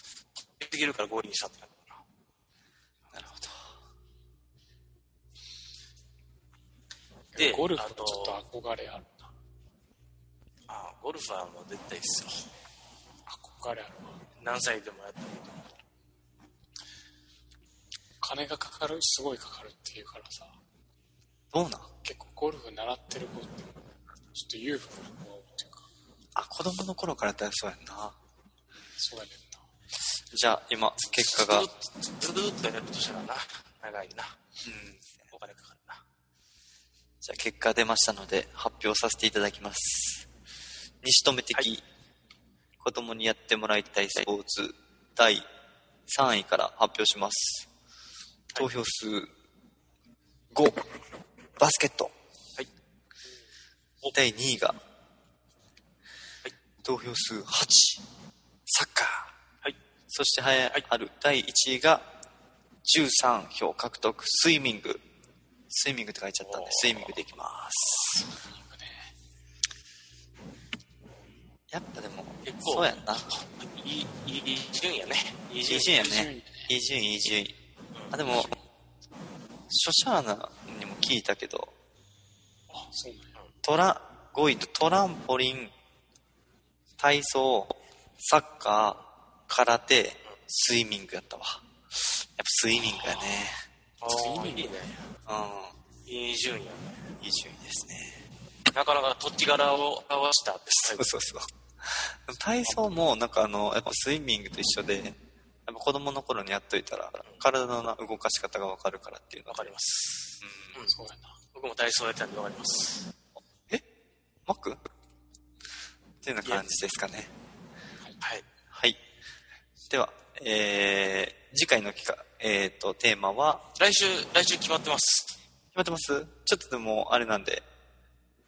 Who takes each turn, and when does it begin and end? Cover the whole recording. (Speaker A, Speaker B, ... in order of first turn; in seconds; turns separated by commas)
Speaker A: 0.4-2.0, Speaker B: 3.1-3.7, Speaker C: 7.3-9.3, Speaker A: 7.3-8.4, Speaker A: 10.7-12.4, Speaker C: 13.3-14.2, Speaker A: 14.4-15.5, Speaker C: 18.2-20.6, Speaker B: 21.5-21.9, Speaker C: 22.0-23.8, Speaker C: 24.3-25.9, Speaker B: 26.4-28.2, Speaker C: 28.9-29.6, Speaker B: 30.3-31.7, Speaker A: 31.2-34.4, Speaker B: 34.6-35.3, Speaker A: 35.3-36.0, Speaker B: 37.2-40.3, Speaker B: 41.0-41.8, Speaker B: 42.8-45.5, Speaker B: 46.1-47.7, Speaker B: 48.5-49.3, Speaker B: 50.5-50.9, Speaker B: 51.6-52.1, Speaker B: 54.1-54.8, Speaker B: 56.8-58.0, Speaker B: 58.7-59.3, Speaker B: 60.1-62.1, Speaker B: 62.8-65.0, Speaker B: 65.7-68.2, Speaker A: 66.4-67.2, Speaker C: 68.2-69.1, Speaker B: 71.7-73.3, Speaker A: 72.4-76.1, Speaker B: 75.6-77.6, Speaker C: 75.8-76.7, Speaker B: 78.1-78.5, Speaker C: 78.2-78.6, Speaker B: 79.7-81.7, Speaker C: 82.7-83.3, Speaker B: 83.6-85.7, Speaker B: 87.0-91.6, Speaker B: 92.4-93.6, Speaker A: 94.0-94.9, Speaker C: 94.0-94.9, Speaker B: 95.3-95.8, Speaker A: 96.0-96.9, Speaker B: 97.2-98.2, Speaker A: 98.7-101.1, Speaker B: 100.8-109.7, Speaker C: 102.7-103.0, Speaker A: 109.5-110.9, Speaker B: 110.4-110.7, Speaker C: 110.8-111.4, Speaker A: 111.5-113.1, Speaker B: 114.5-114.8, Speaker B: 116.2-117.3, Speaker A: 118.2-118.5, Speaker B: 118.7-119.0, Speaker B: 119.9-123.7, Speaker A: 123.7-125.4, Speaker B: 125.7-127.6